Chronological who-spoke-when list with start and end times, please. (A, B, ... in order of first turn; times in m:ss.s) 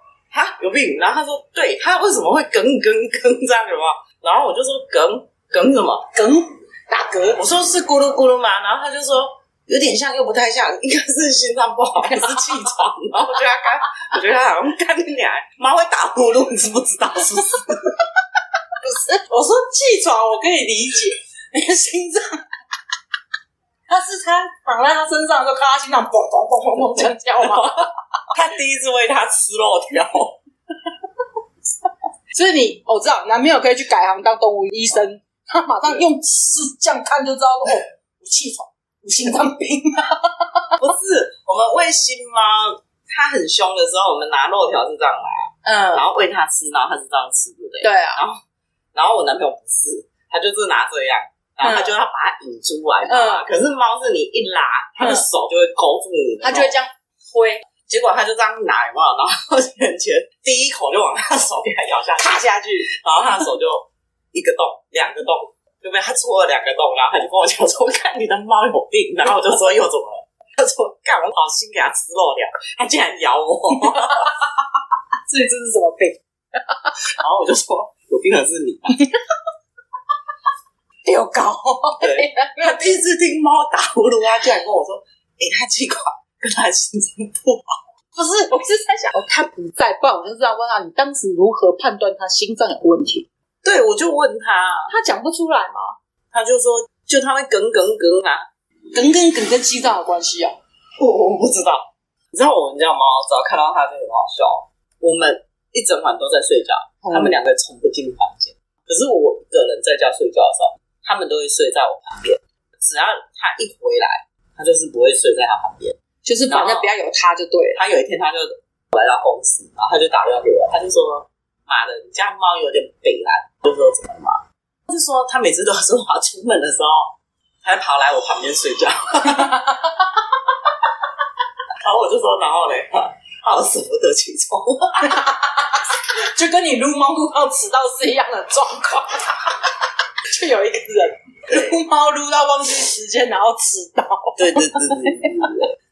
0:00.3-0:06.1 A
0:06.1-0:07.4 B
0:07.4-0:18.0 A
0:12.1-0:12.6 B
0:18.8-0:22.4 B
0:23.9-0:27.9 B
0:27.0-0:30.4 A
0:32.3-0:40.8 B
0:40.8-0:48.4 A
0:45.6-0:46.1 B
0:47.8-0:48.2 B
0:48.9-0:56.7 A
0:51.6-0:51.9 B
0:53.1-0:53.4 B
0:55.0-0:55.3 B
0:56.4-0:57.6 B
0:57.9-1:14.3 A
1:02.2-1:02.9 B
1:13.9-1:14.3 B
1:15.3-1:17.0 B
1:17.2-1:19.0 A
1:21.0-1:23.0 B
1:22.0-1:27.8 A
1:28.2-1:33.3 B
1:33.6-1:34.9 A
1:34.9-1:36.0 B
1:36.3-1:38.4 A
1:38.9-1:40.6 B
1:41.0-1:56.0 A
1:47.0-1:47.3 B
1:56.2-1:57.8 B
1:56.5-1:56.9 A
1:57.8-2:09.6 A
2:09.2-2:10.1 B
2:11.8-2:15.1 A
2:15.0-2:19.6 B
2:20.3-2:25.5 B
2:24.4-2:25.7 A